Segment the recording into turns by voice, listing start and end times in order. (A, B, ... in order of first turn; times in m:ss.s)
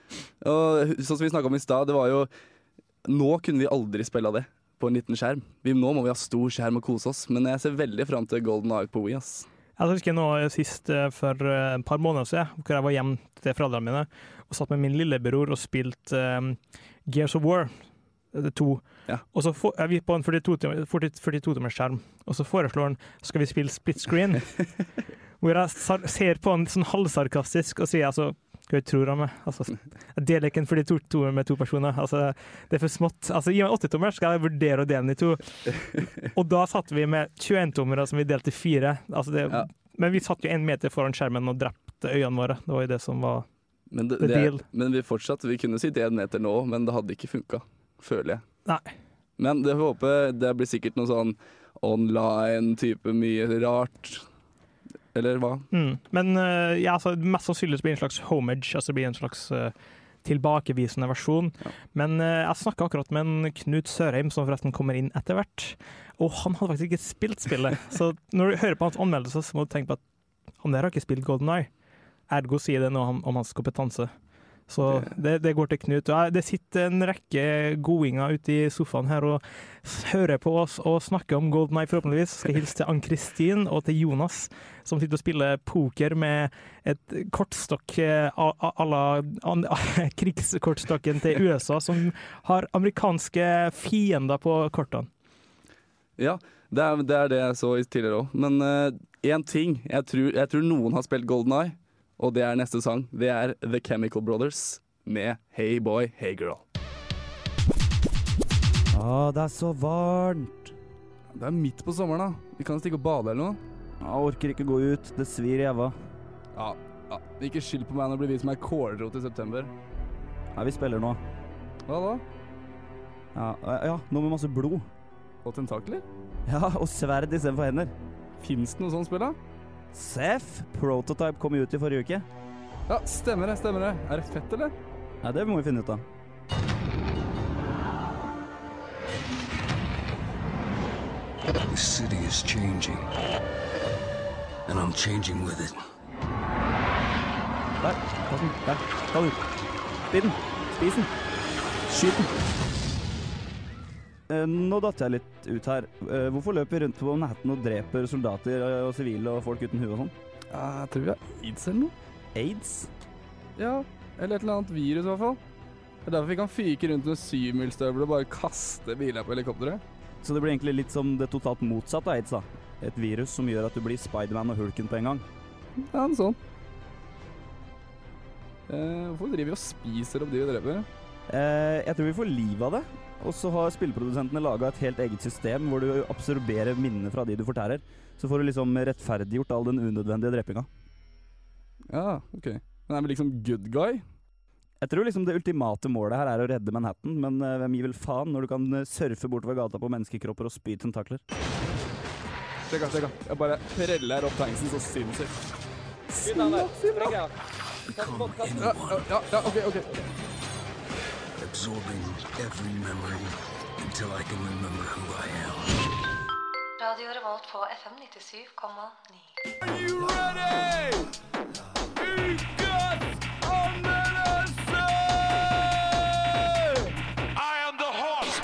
0:00.4-0:02.3 A
0:03.0-0:09.5 A
0:09.8-0:24.6 B
0:25.4-0:35.8 B
0:36.3-0:43.4 B
0:43.9-0:48.4 A
0:44.2-0:44.6 B
0:48.6-0:48.9 B
0:49.4-0:54.2 A
0:55.1-0:55.6 A
0:55.7-1:10.0 B
1:10.6-1:11.7 B
1:12.3-1:14.1 B
1:14.7-1:35.1 B
1:36.2-1:46.6 A
1:48.9-1:50.7 C
1:51.3-1:53.6 A
1:54.0-1:55.9 C
1:56.5-1:59.7 A
2:00.5-2:01.2 C
2:01.9-2:02.2 A
2:03.3-2:04.8 C
2:05.4-2:06.0 A
2:06.4-2:07.9 C
2:08.4-2:09.4 A
2:09.9-2:12.2 C
2:12.9-2:14.7 A
2:15.2-2:16.0 C
2:21.6-2:23.1 D
2:24.7-2:25.8 D
2:27.8-2:29.2 C
2:30.1-2:31.1 C
2:31.9-2:32.3 A
2:34.3-2:40.1 C
2:40.5-2:41.9 A
2:42.3-2:42.9 C
2:43.6-2:45.4 A
2:46.0-2:49.8 A
2:50.2-2:55.2 C
2:55.9-2:56.4 A
2:58.7-3:00.9 A
3:01.3-3:10.7 C
3:11.9-3:14.0 A
3:14.8-3:21.2 C
3:22.7-3:25.4 A
3:26.1-3:27.3 A
3:27.8-3:29.6 D
3:28.6-3:29.8 A
3:31.4-3:35.8 D
3:36.8-3:39.3 E